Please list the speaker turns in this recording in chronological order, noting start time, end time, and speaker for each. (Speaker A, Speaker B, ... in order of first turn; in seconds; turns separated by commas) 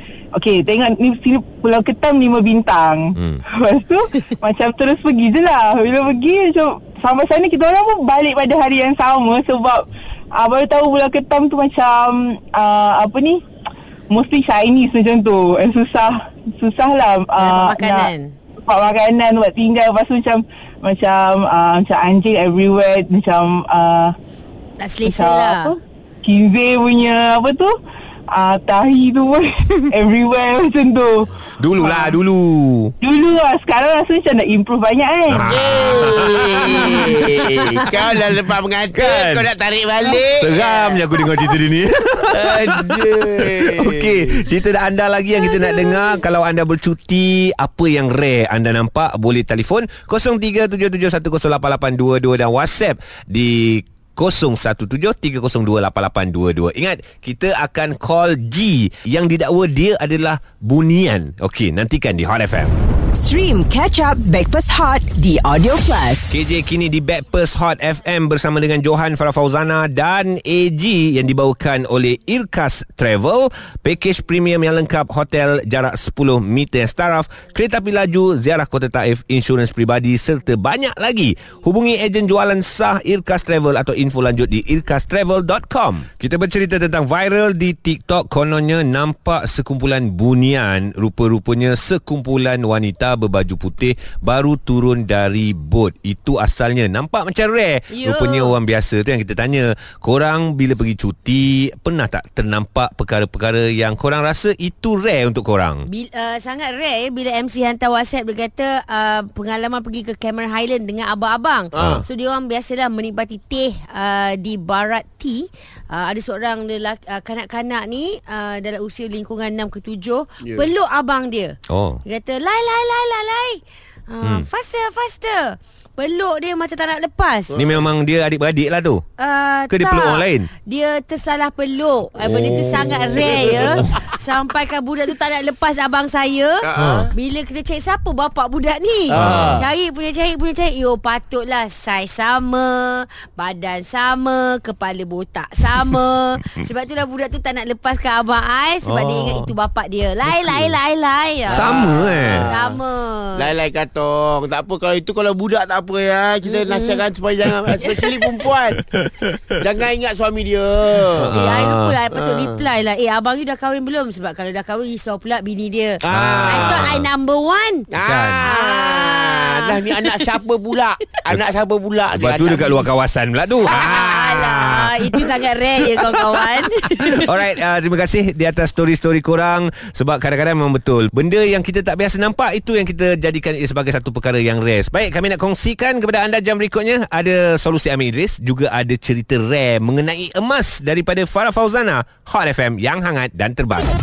Speaker A: 0.3-13.4, Speaker B: 3.1-3.4, Speaker A: 14.1-18.1, Speaker C: 17.4-18.3, Speaker A: 18.6-24.1, Speaker C: 24.8-25.7, Speaker A: 25.0-27.7, Speaker A: 28.3-32.1, Speaker B: 31.6-32.9, Speaker A: 33.0-35.5, Speaker B: 35.3-37.3, Speaker D: 35.5-41.1, Speaker C: 35.5-37.9, Speaker B: 38.9-39.5, Speaker B: 40.2-62.7, Speaker D: 42.3-44.4, Speaker C: 45.3-46.2, Speaker E: 63.1-66.3, Speaker B: 66.3-105.9, Speaker C: 97.9-98.5, Speaker C: 105.9-127.5, Speaker D: 111.8-112.0, Speaker D: 120.4-120.7, Speaker B: 121.7-122.0, Speaker D: 127.5-127.8, Speaker B: 127.5-129.0, Speaker C: 129.2-153.4, Speaker B: 129.7-130.5, Speaker B: 132.2-134.0, Speaker D: 133.2-133.9, Speaker D: 136.6-137.1, Speaker B: 136.8-137.1, Speaker D: 139.1-139.7, Speaker B: 139.1-139.7, Speaker B: 148.8-149.5, Speaker D: 151.5-152.8, Speaker B: 151.5-152.5, Speaker D: 153.3-158.8, Speaker C: 156.5-157.0, Speaker B: 158.8-159.6, Speaker D: 159.6-161.3, Speaker B: 161.0-161.9, Speaker C: 161.3-167.9, Speaker D: 162.1-162.6, Speaker B: 166.0-167.1, Speaker D: 166.2-166.8, Speaker D: 167.9-172.9, Speaker B: 168.0-168.4, Speaker C: 168.4-170.4, Speaker B: 172.1-175.3, Speaker C: 173.7-177.3, Speaker B: 175.9-193.9